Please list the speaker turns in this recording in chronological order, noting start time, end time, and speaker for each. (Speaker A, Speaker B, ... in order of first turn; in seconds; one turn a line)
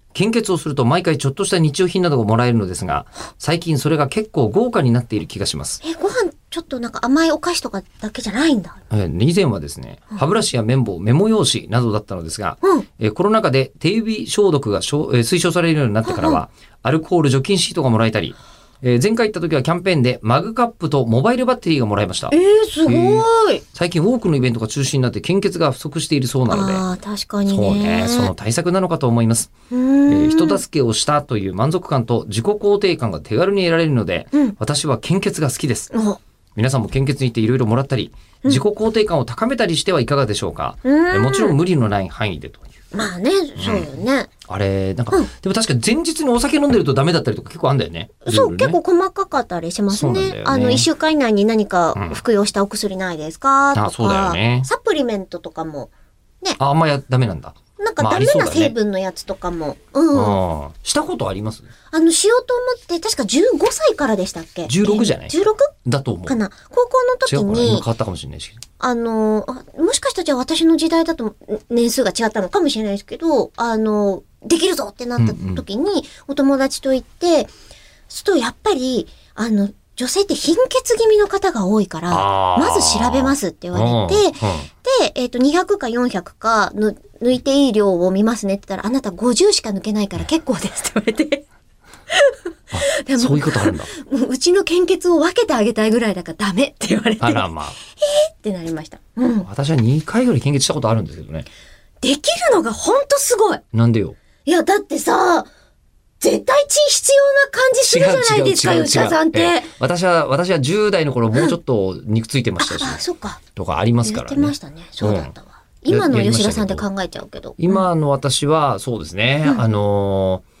Speaker A: 0.1-5.8
Speaker B: 5.8-8.8
Speaker A: 8.9-22.3
Speaker B: 16.1-16.4
Speaker B: 22.3-23.6
Speaker A: 22.9-26.8
Speaker B: 26.5-28.3
Speaker A: 27.4-29.5
Speaker B: 29.7-30.6
Speaker A: 30.1-35.9
Speaker B: 35.9-36.2
Speaker A: 36.5-42.7
Speaker B: 40.8-41.5
Speaker B: 42.9-44.3
Speaker A: 43.6-43.9
Speaker A: 44.5-48.8
Speaker B: 48.2-55.9
Speaker A: 49.9-50.9
Speaker A: 51.9-52.2
Speaker A: 53.7-54.7
Speaker A: 56.6-58.7
Speaker B: 57.8-60.4
Speaker A: 60.1-61.7
Speaker B: 61.9-65.7
Speaker A: 64.7-66.3
Speaker B: 66.2-67.8
Speaker A: 67.3-68.6
Speaker B: 68.8-77.5
Speaker A: 75.2-75.6
Speaker B: 78.1-91.4
Speaker A: 82.1-84.7
Speaker A: 92.7-93.9
Speaker B: 92.8-99.5
Speaker A: 97.2-97.8
Speaker A: 99.5-101.5
Speaker B: 102.0-103.6
Speaker A: 103.7-104.2
Speaker B: 104.4-105.5
Speaker B: 106.2-109.7
Speaker A: 107.8-113.0
Speaker B: 112.6-113.4
Speaker A: 113.5-115.3
Speaker B: 114.0-117.8
Speaker A: 115.9-116.8
Speaker A: 117.6-120.4